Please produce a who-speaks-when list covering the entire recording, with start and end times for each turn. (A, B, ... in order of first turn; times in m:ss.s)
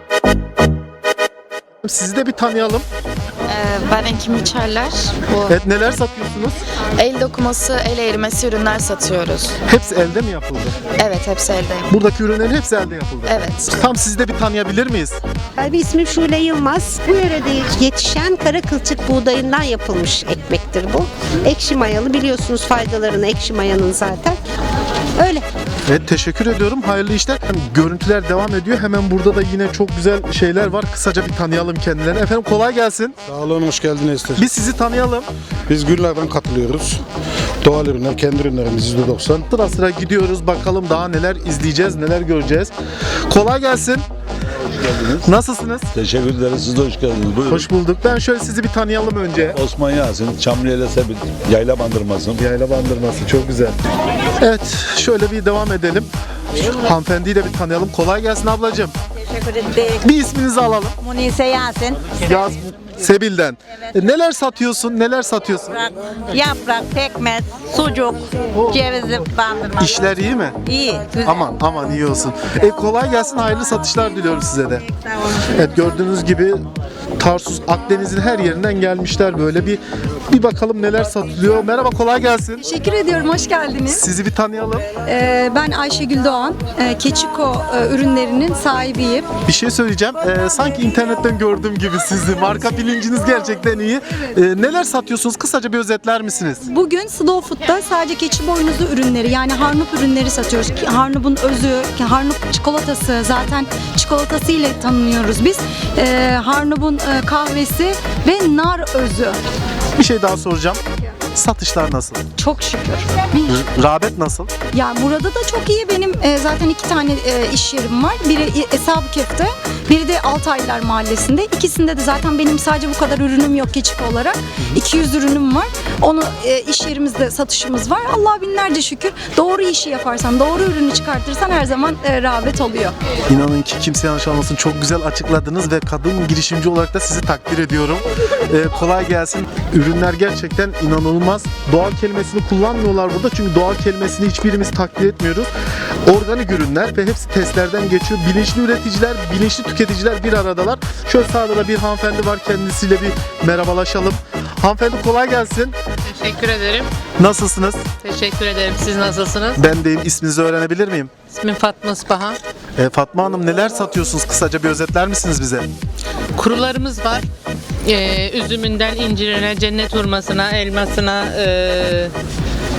0:01.8-0:02.8 A
0:03.6-0:04.8 B
0:05.5-0:06.6 A
0:07.0-0:09.4 B
0:09.6-0:10.8 A
0:11.0-0:11.8 B
0:11.9-0:15.2 A
0:15.6-0:24.4 C
0:25.9-0:33.2 A
0:33.2-0:34.4 D
0:34.4-0:35.3 A
0:35.7-0:37.0 D
0:37.6-0:39.5 D
0:39.5-0:42.7 A
0:43.3-0:44.0 A
0:44.8-0:45.3 E
0:45.2-0:45.9 A
0:45.9-0:47.7 E
0:47.5-0:49.6 A
0:49.5-0:52.4 E
0:52.4-0:53.8 A
0:54.4-0:58.9 A
1:00.0-1:00.9 A
1:01.0-1:01.9 F
1:02.2-1:05.7 A
1:07.6-1:08.1 F
1:08.7-1:09.2 F
1:09.8-1:10.6 A
1:10.7-1:11.5 F
1:11.2-1:14.8 A
1:15.5-1:16.6 A
1:17.2-1:22.6 A
1:22.6-1:24.0 G
1:23.9-1:24.9 A
1:25.0-1:29.3 G
1:29.5-1:36.6 A
1:36.6-1:49.4 G
1:50.0-1:50.8 A
1:51.3-1:52.2 A
1:52.4-1:53.6 G
1:53.4-1:54.5 A
1:54.7-2:13.0 G
2:13.3-2:25.5 A
2:26.0-2:35.8 A
2:36.1-2:36.9 H
2:37.2-2:37.8 A
2:38.0-2:39.6 H
2:39.6-2:41.1 A
2:41.3-2:42.4 H
2:42.8-2:45.7 A
2:46.4-2:47.2 H
2:47.8-2:52.1 H